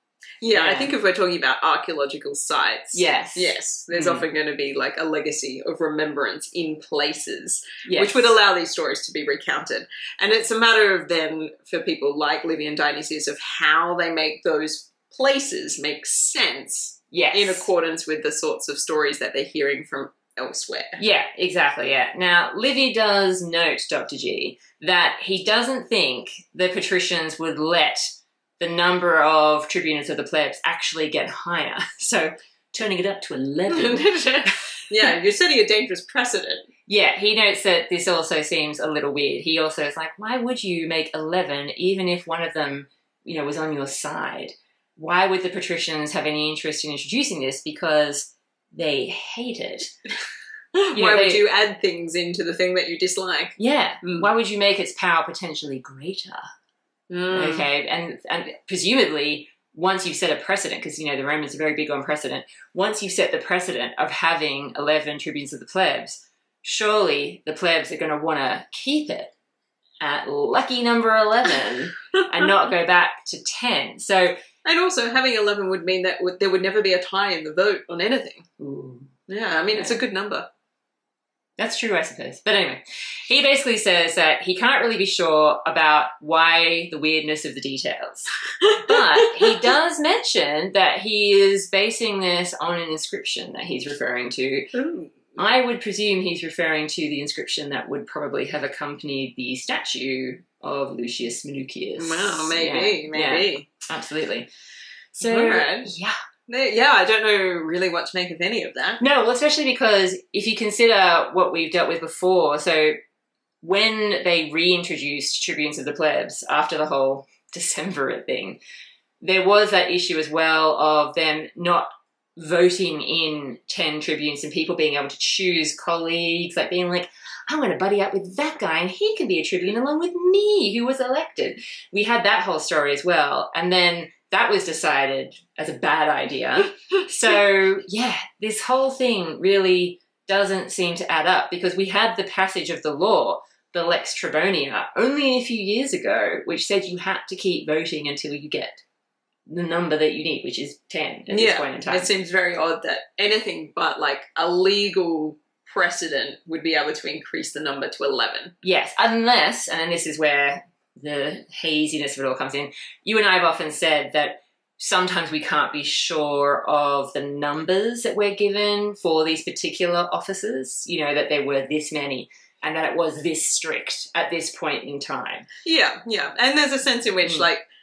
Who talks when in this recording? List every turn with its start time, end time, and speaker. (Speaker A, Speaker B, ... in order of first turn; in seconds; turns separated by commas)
Speaker A: 0.4-21.0, Speaker B: 0.5-0.9, Speaker B: 2.9-4.3, Speaker B: 7.8-8.3, Speaker B: 17.1-17.7, Speaker B: 21.0-28.1, Speaker B: 28.6-35.0, Speaker A: 33.7-36.6, Speaker B: 36.9-49.9, Speaker A: 50.8-54.3, Speaker B: 50.9-51.4, Speaker B: 53.6-56.5, Speaker A: 57.1-57.7, Speaker B: 57.3-69.3, Speaker B: 70.0-74.3, Speaker A: 72.2-72.5, Speaker A: 74.6-78.5, Speaker B: 78.6-79.1, Speaker A: 79.3-80.5, Speaker B: 79.7-80.0, Speaker B: 81.6-94.7, Speaker A: 88.6-89.6, Speaker A: 94.7-95.4, Speaker B: 95.4-104.5, Speaker A: 102.0-103.7, Speaker A: 105.2-105.9, Speaker B: 105.2-106.2, Speaker A: 106.5-109.0, Speaker B: 109.0-113.0, Speaker B: 113.6-118.6, Speaker B: 119.2-148.8, Speaker B: 149.5-152.1, Speaker A: 151.3-158.6, Speaker B: 158.6-175.5, Speaker A: 175.7-177.7